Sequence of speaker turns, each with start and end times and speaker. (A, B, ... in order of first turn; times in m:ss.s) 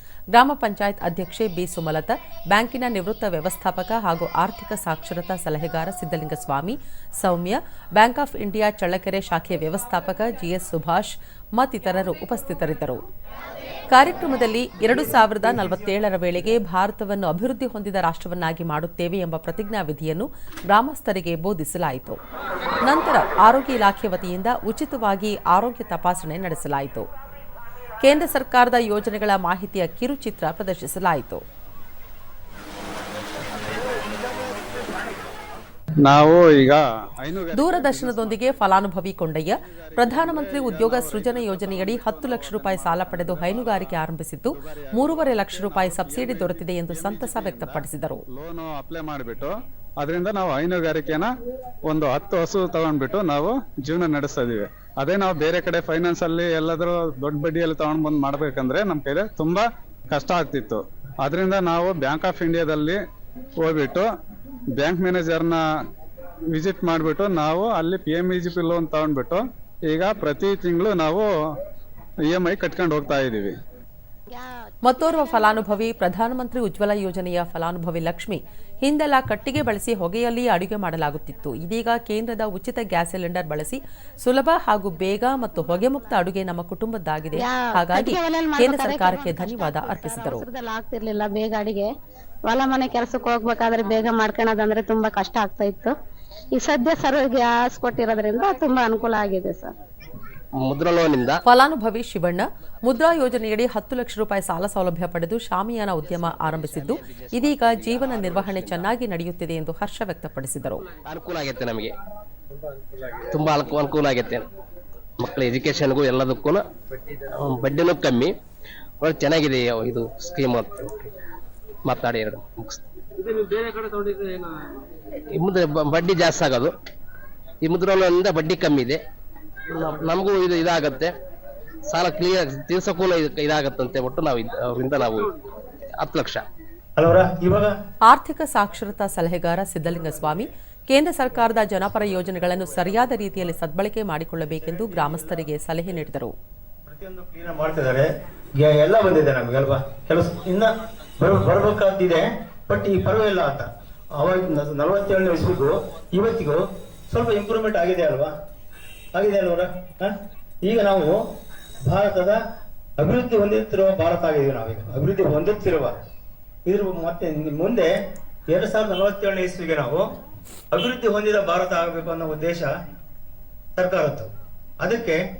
0:00.3-0:13.0 A
0:13.9-0:22.2 A
0:22.8-0:27.0 A
0:28.0-0:31.4 A
0:36.0-0:38.6 B
0:37.6-0:48.2 A
0:39.6-0:51.3 B
0:51.8-1:03.0 B
1:03.6-1:04.1 B
1:04.8-1:05.6 B
1:06.5-1:11.2 B
1:12.2-1:13.5 B
1:14.3-1:15.8 C
1:14.8-1:30.4 A
1:27.4-1:31.9 C
1:32.4-1:35.9 C
1:36.5-1:39.7 C
1:40.6-1:41.4 D
1:41.4-1:50.9 A
1:46.0-1:48.9 D
1:51.0-1:51.9 D
1:53.0-1:54.5 D
1:55.2-1:58.3 D
1:59.0-2:01.0 D
2:01.8-2:04.4 D
2:05.4-2:06.7 D
2:07.6-2:09.0 D
2:09.7-2:11.1 D
2:11.9-2:15.3 D
2:16.0-2:16.4 D
2:17.0-2:17.7 E
2:18.1-2:26.3 A
2:24.5-2:25.4 E
2:26.8-2:38.3 E
2:39.1-2:41.2 E
2:41.8-2:42.4 E
2:43.0-2:45.9 E
2:46.7-2:47.9 E
2:48.5-2:50.1 E
2:50.7-2:52.7 E
2:53.7-2:54.3 E
2:54.8-2:55.2 E